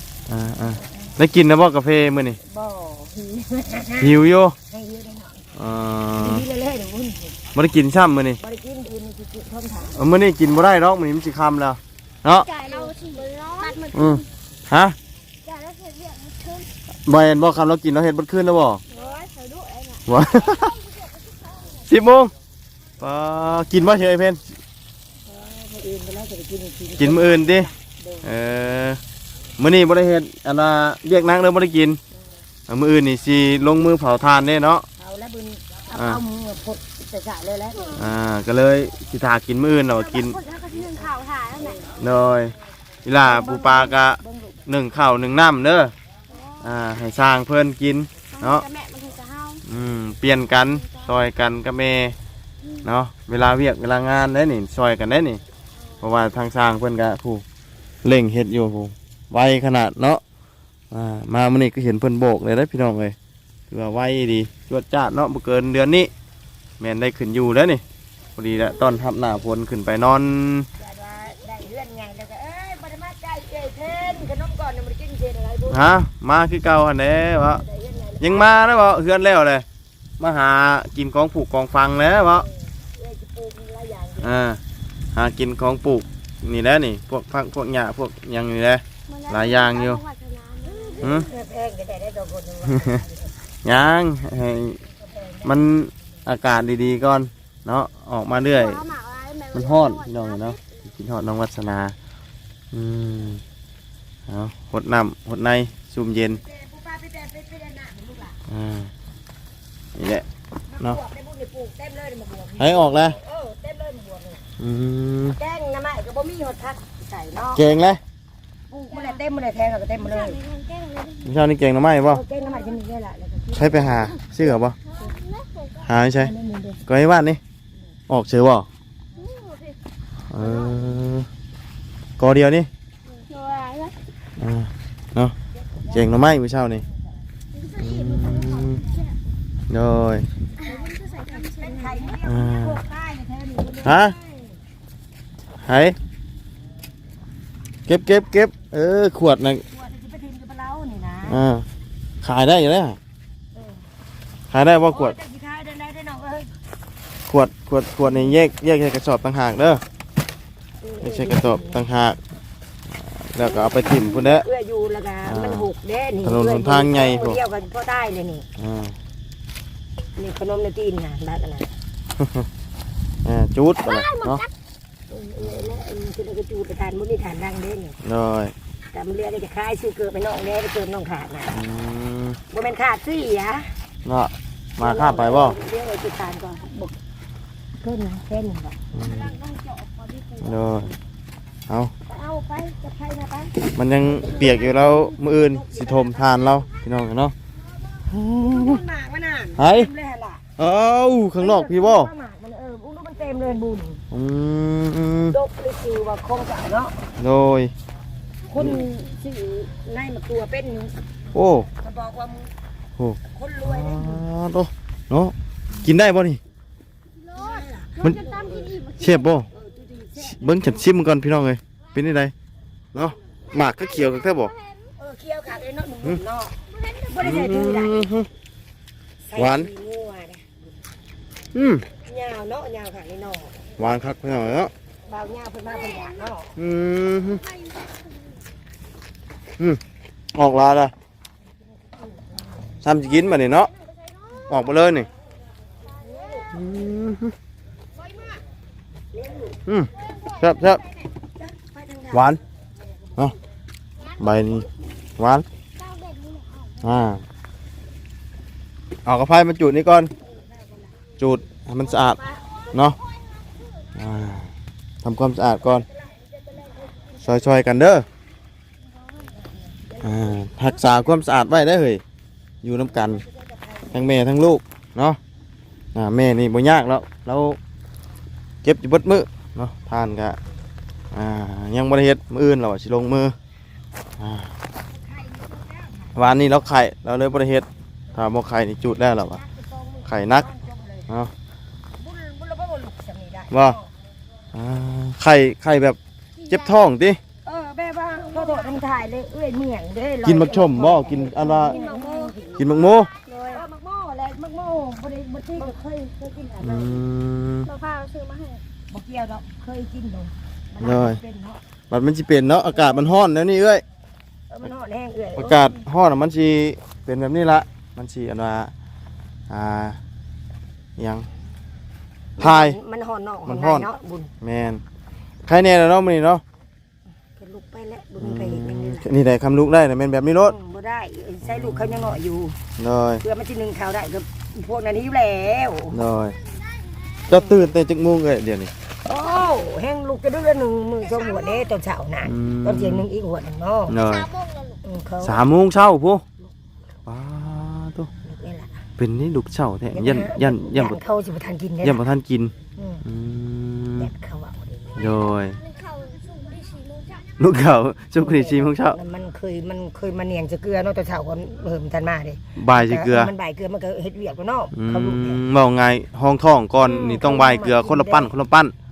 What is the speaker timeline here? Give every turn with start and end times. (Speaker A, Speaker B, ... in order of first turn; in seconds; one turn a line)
Speaker A: 0.3-2.4
Speaker B: 0.8-1.1
Speaker B: 2.4-5.5
Speaker A: 4.0-4.5
Speaker A: 5.5-6.5
Speaker B: 6.2-7.4
Speaker A: 7.5-8.4
Speaker B: 8.4-10.0
Speaker A: 10.0-12.5
Speaker C: 12.4-14.2
Speaker B: 12.7-13.1
Speaker B: 13.6-14.2
Speaker A: 13.9-15.0
Speaker C: 15.4-16.7
Speaker A: 17.1-18.8
Speaker C: 18.9-21.7
Speaker A: 20.1-20.8
Speaker A: 21.9-22.3
Speaker A: 23.0-24.4
Speaker B: 25.3-28.3
Speaker A: 27.0-27.7
Speaker A: 28.2-29.0
Speaker A: 29.6-32.0
Speaker A: 32.7-34.9
Speaker B: 35.0-38.0
Speaker A: 36.0-36.2
Speaker A: 37.9-40.4
Speaker C: 39.9-41.8
Speaker B: 40.7-42.0
Speaker A: 42.0-42.5
Speaker A: 43.0-45.9
Speaker B: 43.2-44.6
Speaker C: 46.3-46.8
Speaker A: 46.6-48.7
Speaker C: 48.3-49.6
Speaker A: 49.6-52.2
Speaker A: 52.8-55.4
Speaker A: 56.0-57.4
Speaker A: 58.0-60.2
Speaker A: 60.9-63.2
Speaker A: 63.7-66.1
Speaker A: 66.8-67.8
Speaker A: 68.4-70.7
Speaker B: 70.8-75.8
Speaker A: 75.7-77.6
Speaker B: 77.3-78.6
Speaker A: 78.2-79.7
Speaker A: 80.2-82.5
Speaker B: 82.4-84.4
Speaker A: 84.2-84.6
Speaker A: 85.2-90.0
Speaker C: 89.1-91.2
Speaker B: 90.7-93.3
Speaker A: 91.0-91.3
Speaker A: 92.7-93.0
Speaker A: 93.6-94.8
Speaker B: 94.8-95.5
Speaker A: 95.4-98.9
Speaker C: 98.5-100.6
Speaker A: 99.5-102.0
Speaker A: 102.7-103.4
Speaker A: 104.3-106.4
Speaker B: 106.3-108.4
Speaker A: 108.5-108.9
Speaker A: 110.0-110.2
Speaker B: 110.7-114.5
Speaker A: 112.6-113.2
Speaker A: 114.6-115.4
Speaker B: 115.4-117.7
Speaker A: 117.5-118.0
Speaker B: 118.7-120.4
Speaker C: 120.1-121.3
Speaker A: 121.2-122.2
Speaker B: 122.0-124.1
Speaker A: 123.6-124.8
Speaker C: 125.0-125.8
Speaker A: 125.8-126.3
Speaker B: 126.2-126.8
Speaker A: 126.9-127.4
Speaker A: 128.1-128.7
Speaker C: 129.2-129.8
Speaker A: 130.3-131.3
Speaker A: 132.2-132.7
Speaker C: 133.1-134.0
Speaker A: 134.4-135.3
Speaker B: 135.6-136.0
Speaker A: 135.9-136.8
Speaker C: 137.6-139.2
Speaker A: 137.8-138.8
Speaker A: 139.7-140.3
Speaker C: 140.6-142.1
Speaker B: 140.6-144.6
Speaker A: 142.2-142.8
Speaker A: 143.8-144.2
Speaker A: 145.6-146.0
Speaker A: 147.9-149.6
Speaker B: 149.7-151.4
Speaker A: 151.3-151.7
Speaker A: 152.2-153.0
Speaker A: 154.5-155.2
Speaker B: 154.9-156.6
Speaker A: 157.3-159.8
Speaker B: 160.8-161.9
Speaker A: 161.0-162.2
Speaker A: 162.9-164.4
Speaker B: 163.4-168.5
Speaker A: 165.3-165.7
Speaker A: 166.2-167.4
Speaker A: 168.6-169.0
Speaker B: 170.2-171.7
Speaker A: 172.2-172.5
Speaker A: 173.2-174.4
Speaker C: 173.8-174.5
Speaker B: 175.1-178.0
Speaker A: 175.4-175.8
Speaker A: 178.0-178.5
Speaker B: 178.9-181.6
Speaker A: 181.5-182.4
Speaker B: 182.5-183.8
Speaker A: 184.1-185.6
Speaker B: 184.8-186.9
Speaker B: 187.8-188.8
Speaker A: 188.9-189.4
Speaker C: 189.0-190.4
Speaker A: 190.4-190.9
Speaker B: 192.1-196.5
Speaker A: 193.7-197.3
Speaker A: 198.1-198.8
Speaker B: 198.2-200.4
Speaker A: 199.6-199.9
Speaker A: 200.6-202.1
Speaker B: 201.4-204.0
Speaker A: 204.1-205.3
Speaker B: 205.3-207.0
Speaker A: 207.2-207.7
Speaker B: 208.5-211.1
Speaker A: 211.3-211.7
Speaker B: 211.8-212.5
Speaker A: 213.0-216.4
Speaker B: 213.3-214.2
Speaker B: 217.3-218.8
Speaker C: 218.0-219.3
Speaker A: 219.0-219.5
Speaker B: 219.5-220.8
Speaker A: 220.2-222.3
Speaker A: 222.9-224.5
Speaker C: 224.1-224.7
Speaker B: 225.0-228.1
Speaker C: 226.8-227.1
Speaker A: 227.2-228.3
Speaker B: 229.2-230.8
Speaker A: 229.4-229.7
Speaker A: 231.5-231.9
Speaker B: 231.9-233.7
Speaker A: 233.8-234.7
Speaker B: 235.1-236.5
Speaker A: 236.6-237.4
Speaker A: 240.3-240.9
Speaker B: 242.0-242.8
Speaker A: 242.8-243.7
Speaker A: 244.5-245.1
Speaker B: 245.9-246.6
Speaker A: 246.5-247.3
Speaker B: 249.1-249.6
Speaker A: 249.7-250.8
Speaker B: 251.4-252.4
Speaker A: 252.1-252.4
Speaker A: 254.2-255.5
Speaker C: 255.8-256.8
Speaker A: 256.8-257.2
Speaker A: 259.1-260.1
Speaker B: 260.6-260.9
Speaker A: 261.2-262.2
Speaker A: 262.7-263.0
Speaker A: 264.0-264.5
Speaker A: 265.0-265.9
Speaker B: 265.9-267.3
Speaker A: 267.2-268.1
Speaker B: 269.3-271.1
Speaker A: 270.0-272.0
Speaker A: 272.6-273.2
Speaker B: 272.9-274.1
Speaker A: 273.9-275.2
Speaker A: 275.9-277.6
Speaker A: 278.6-280.4
Speaker A: 281.1-283.4
Speaker A: 284.2-284.5
Speaker B: 285.0-286.1
Speaker A: 286.1-289.4
Speaker B: 289.3-291.1
Speaker A: 290.1-290.5
Speaker B: 292.0-293.9
Speaker A: 293.5-293.8
Speaker A: 294.5-296.0
Speaker C: 296.4-296.8
Speaker A: 296.5-297.2
Speaker B: 297.4-302.7
Speaker C: 298.4-298.7
Speaker A: 300.2-301.8
Speaker C: 301.7-302.4
Speaker A: 302.6-303.1
Speaker C: 303.2-303.6
Speaker B: 303.5-307.0
Speaker A: 306.6-307.7
Speaker C: 307.6-308.6
Speaker B: 308.9-311.6
Speaker A: 310.8-311.2
Speaker A: 311.9-313.8
Speaker B: 314.5-315.7
Speaker A: 315.4-318.7
Speaker A: 319.5-320.0
Speaker A: 321.0-321.3
Speaker A: 322.4-322.8
Speaker B: 322.4-324.3
Speaker A: 323.5-323.9
Speaker A: 324.4-324.8
Speaker A: 325.5-326.4
Speaker B: 327.4-329.1
Speaker A: 328.2-330.6
Speaker B: 330.4-332.6
Speaker A: 331.5-332.2
Speaker A: 332.8-333.2
Speaker B: 333.2-336.0
Speaker A: 335.9-336.4
Speaker A: 337.3-338.7
Speaker B: 339.0-344.0
Speaker A: 342.2-343.1
Speaker A: 343.9-344.3
Speaker C: 344.1-344.8
Speaker B: 344.8-345.4
Speaker A: 345.2-346.2
Speaker A: 347.1-348.1
Speaker B: 348.2-348.9
Speaker A: 349.0-351.0
Speaker B: 349.9-352.1
Speaker A: 351.8-354.1
Speaker B: 352.8-353.0
Speaker B: 354.0-355.2
Speaker A: 355.0-355.6
Speaker C: 355.7-357.2
Speaker A: 357.4-359.0
Speaker B: 358.2-365.4
Speaker A: 362.6-363.3
Speaker A: 364.7-368.7
Speaker B: 366.8-368.3